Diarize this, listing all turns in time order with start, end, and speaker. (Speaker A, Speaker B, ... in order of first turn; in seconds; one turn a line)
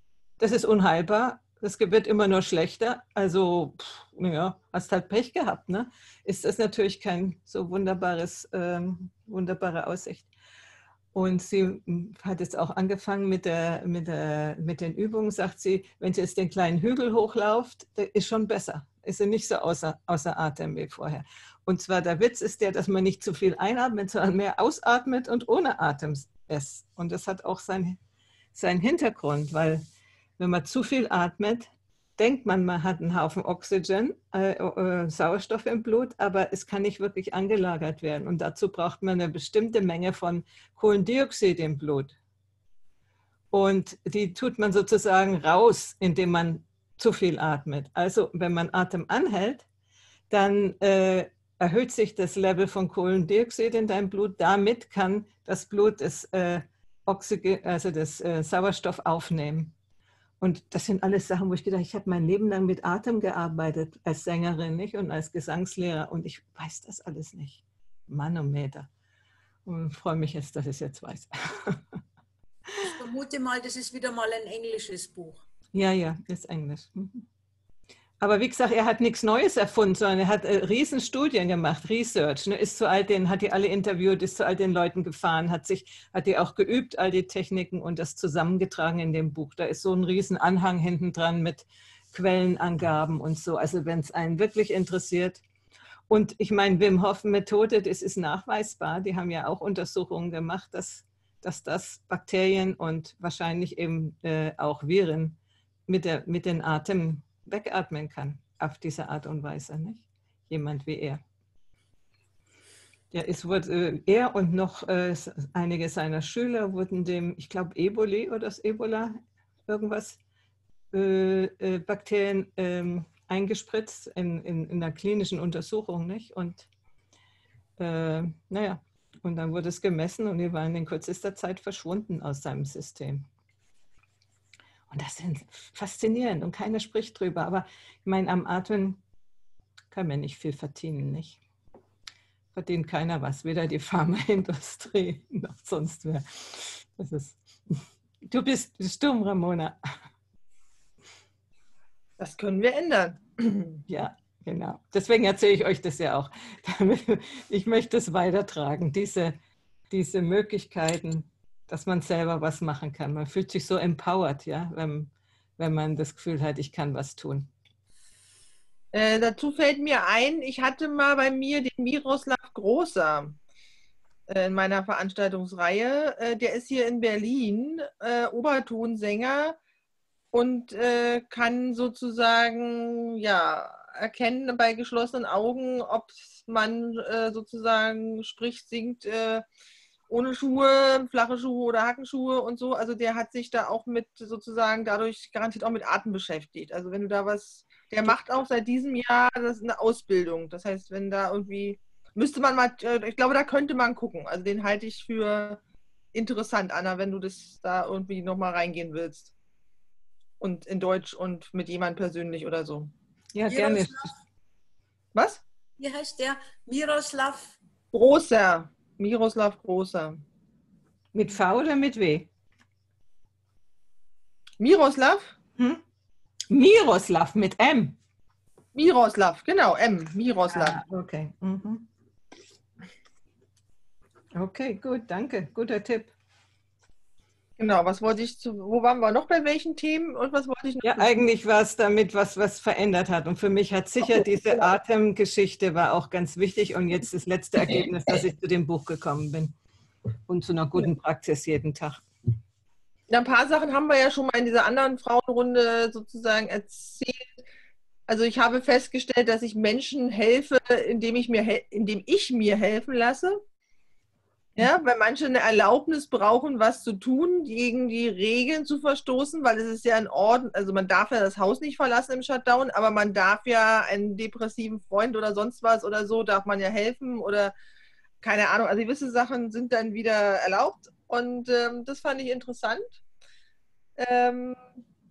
Speaker A: 0.4-10.3
Speaker A: 11.1-28.0
Speaker A: 28.5-29.9
Speaker A: 30.4-42.2
Speaker A: 43.5-49.7
Speaker A: 50.3-59.7
Speaker A: 60.4-68.9
Speaker A: 69.7-71.8
Speaker B: 72.8-75.5
Speaker A: 75.7-77.2
Speaker A: 78.2-95.4
Speaker A: 96.1-111.2
Speaker A: 113.1-120.2
Speaker A: 120.9-126.7
Speaker A: 127.8-133.3
Speaker A: 134.9-139.0
Speaker A: 139.9-141.4
Speaker A: 142.5-149.8
Speaker C: 152.2-153.8
Speaker A: 153.9-159.4
Speaker A: 159.9-167.5
Speaker C: 168.9-173.4
Speaker C: 174.3-179.6
Speaker C: 180.3-189.4
Speaker C: 190.1-205.6
Speaker C: 206.1-209.3
Speaker C: 210.4-212.9
Speaker A: 213.3-214.1
Speaker B: 213.5-214.2
Speaker C: 215.2-215.4
Speaker B: 215.8-217.6
Speaker C: 217.9-220.2
Speaker A: 221.1-222.3
Speaker C: 224.6-225.3
Speaker A: 225.6-225.8
Speaker A: 226.5-228.0
Speaker C: 228.7-230.8
Speaker A: 230.5-231.9
Speaker A: 234.3-236.1
Speaker C: 237.6-241.1
Speaker A: 240.8-249.5
Speaker C: 244.0-244.7
Speaker A: 250.3-252.0
Speaker C: 253.1-257.2
Speaker C: 258.1-263.4
Speaker C: 264.6-277.5
Speaker C: 278.2-283.0
Speaker C: 284.0-284.7